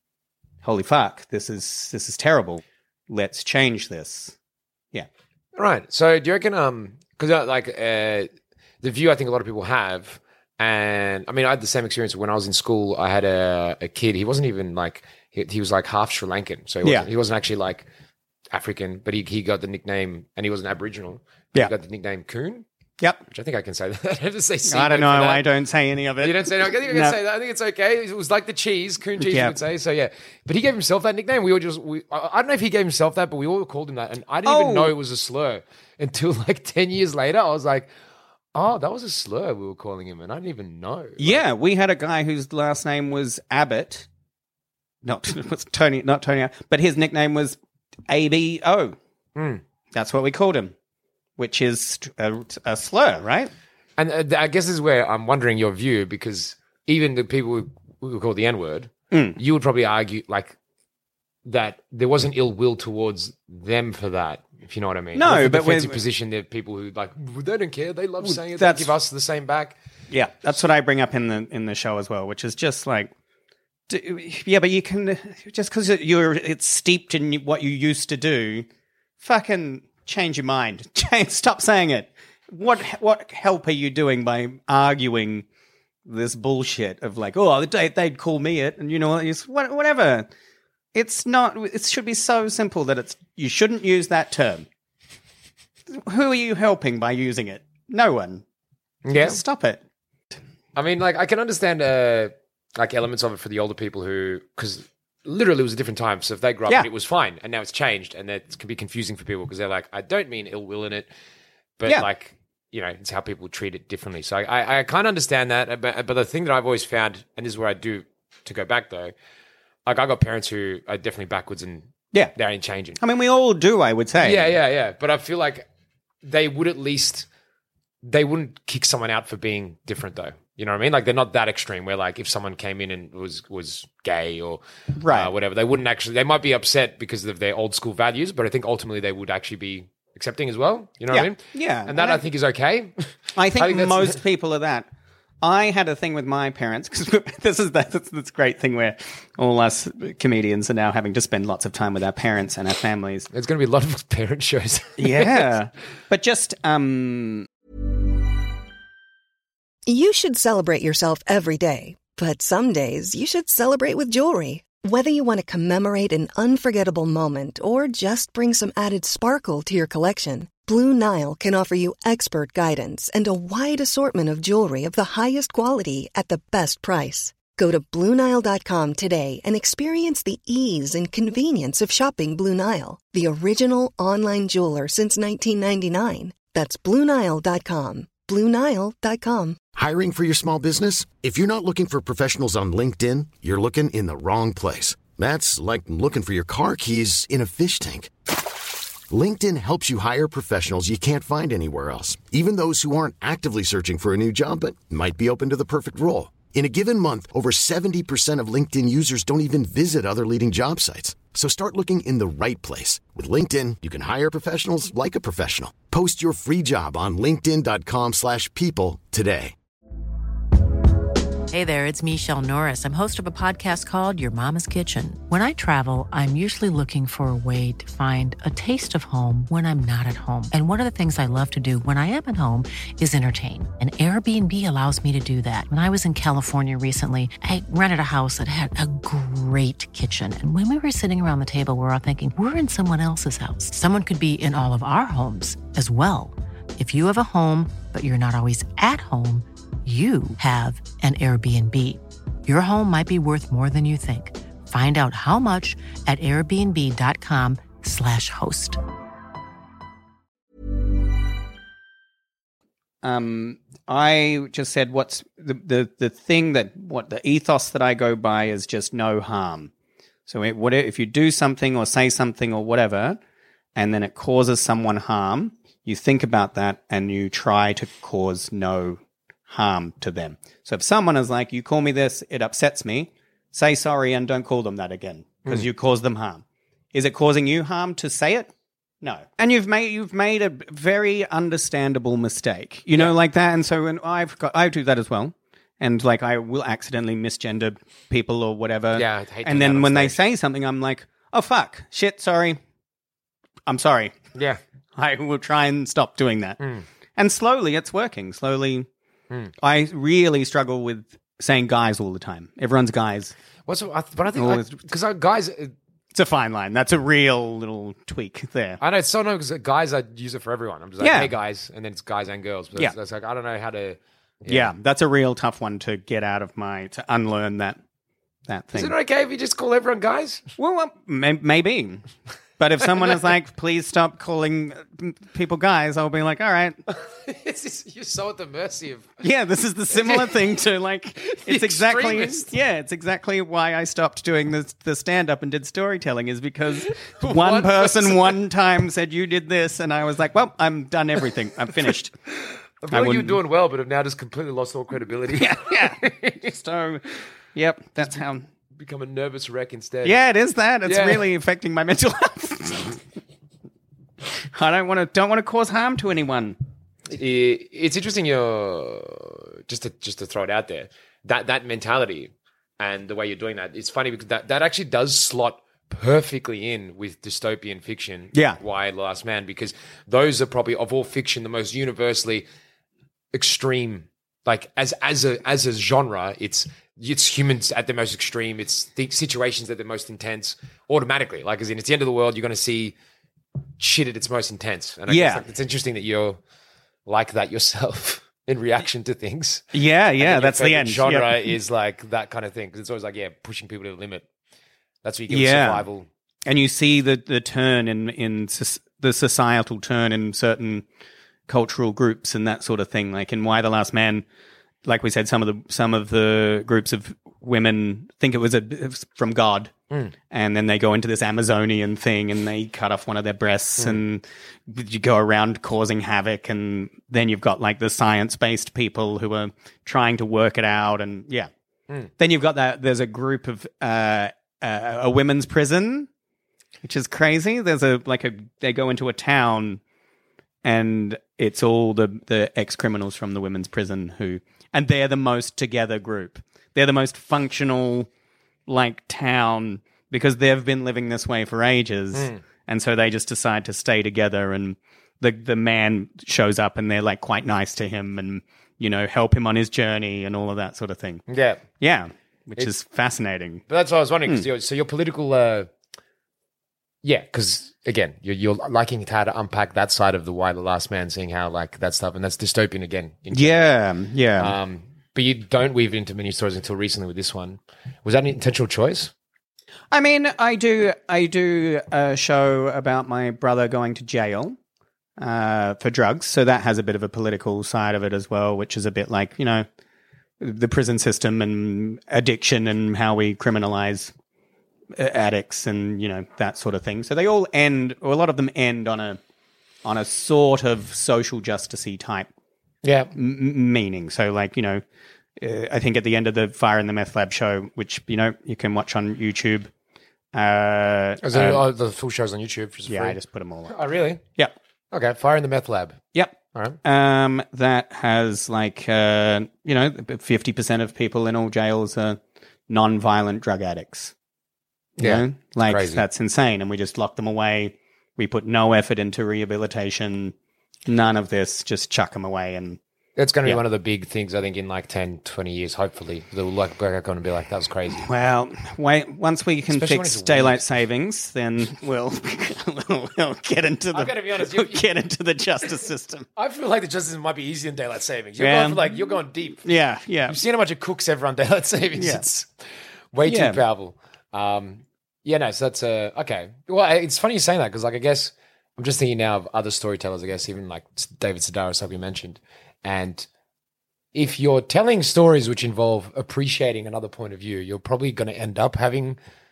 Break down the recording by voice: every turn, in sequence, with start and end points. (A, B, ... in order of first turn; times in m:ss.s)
0:00.6-0:04.3 A
0:05.5-0:08.3 B
0:08.8-0:17.9 B
0:18.5-0:22.6 B
0:23.3-0:25.4 B
0:24.7-0:27.2 A
0:26.2-0:37.9 B
0:29.2-0:29.6 A
0:34.4-0:34.9 A
0:38.5-0:41.4 B
0:41.2-0:44.0 A
0:45.0-0:47.6 A
0:48.1-0:49.0 A
0:49.4-0:49.6 B
0:49.9-0:50.7 A
0:51.4-0:53.5 A
0:54.0-1:00.5 B
0:59.1-0:59.4 A
1:01.4-1:09.8 B
1:05.1-1:06.0 A
1:08.2-1:08.9 A
1:10.1-1:13.1 A
1:13.9-1:18.7 A
1:19.2-1:25.4 A
1:26.0-1:30.3 A
1:30.9-1:34.6 A
1:35.9-1:38.4 A
1:39.0-1:39.4 B
1:39.2-1:39.8 A
1:40.7-1:51.1 B
1:51.8-1:59.1 B
1:59.8-2:03.0 B
2:03.0-2:04.5 A
2:04.2-2:05.7 B
2:06.2-2:07.3 B
2:08.0-2:24.2 B
2:15.0-2:15.3 A
2:21.1-2:22.2 A
2:23.3-2:24.9 A
2:25.4-2:33.3 A
2:33.3-2:35.5 B
2:35.0-2:37.5 A
2:39.9-3:09.6 C
3:09.7-3:18.3 D
3:19.1-3:39.5 D
3:41.5-4:18.8 E
4:23.0-4:29.7 A
4:30.3-4:33.2 A
4:33.8-4:48.5 A
4:49.0-5:02.6 A
4:58.9-5:00.2 B
5:03.7-5:04.2 A
5:04.3-5:04.6 B
5:05.0-5:06.6 A
5:06.6-5:06.8 B
5:07.2-5:08.9 A
5:09.6-5:13.3 A
5:13.7-5:15.7 B
5:14.4-5:14.8 A
5:16.1-5:18.8 A
5:18.8-5:24.7 B
5:21.0-5:21.3 A
5:24.5-5:27.8 A
5:28.5-5:28.9 A
5:28.7-5:30.4 B
5:30.6-5:32.0 A
5:32.6-5:36.8 A
5:36.9-5:39.2 B
5:39.2-5:52.1 A
5:39.9-5:40.6 B
5:41.2-5:42.5 B
5:47.0-5:48.4 B
5:52.8-5:56.5 B
5:52.9-5:53.4 A
5:55.3-5:58.5 A
5:58.8-6:00.2 B
6:00.0-6:03.0 A
6:00.8-6:01.3 B
6:04.4-6:06.6 A
6:07.1-6:22.5 B
6:18.3-6:18.6 A
6:23.3-6:32.9 B
6:33.8-6:36.4 B
6:35.1-6:35.4 A
6:37.0-6:44.2 B
6:39.7-6:41.6 A
6:45.0-6:46.1 B
6:45.3-6:45.8 A
6:46.4-6:50.8 A
6:51.5-6:54.2 A
6:54.8-6:59.7 A
7:00.3-7:11.5 A
7:12.2-7:16.1 A
7:16.8-7:19.8 A
7:20.6-7:28.1 A
7:28.7-7:41.2 A
7:32.1-7:32.4 B
7:41.3-7:41.6 B
7:41.8-7:43.6 A
7:43.7-7:45.7 B
7:47.0-7:53.6 B
7:53.3-7:54.6 A
7:54.4-7:59.1 B
7:59.9-8:04.6 A
8:05.2-8:09.6 A
8:10.4-8:14.1 A
8:14.9-8:19.2 A
8:19.8-8:22.3 A
8:22.8-8:23.1 B
8:23.1-8:24.8 A
8:25.4-8:29.7 A
8:30.3-8:31.6 A
8:31.2-8:33.2 B
8:32.9-8:33.8 A
8:33.7-8:34.2 B
8:34.9-8:36.0 B
8:36.1-8:44.1 A
8:45.0-8:50.3 A
8:45.0-8:46.0 B
8:50.9-8:52.8 A
8:53.2-8:58.0 B
8:58.0-9:06.2 A
8:59.7-9:00.6 B
9:03.9-9:04.8 B
9:06.4-9:09.6 B
9:08.4-9:09.0 A
9:09.6-9:10.4 A
9:10.3-9:12.5 B
9:11.9-9:12.2 A
9:13.1-9:23.3 B
9:13.2-9:13.6 A
9:24.1-9:29.2 B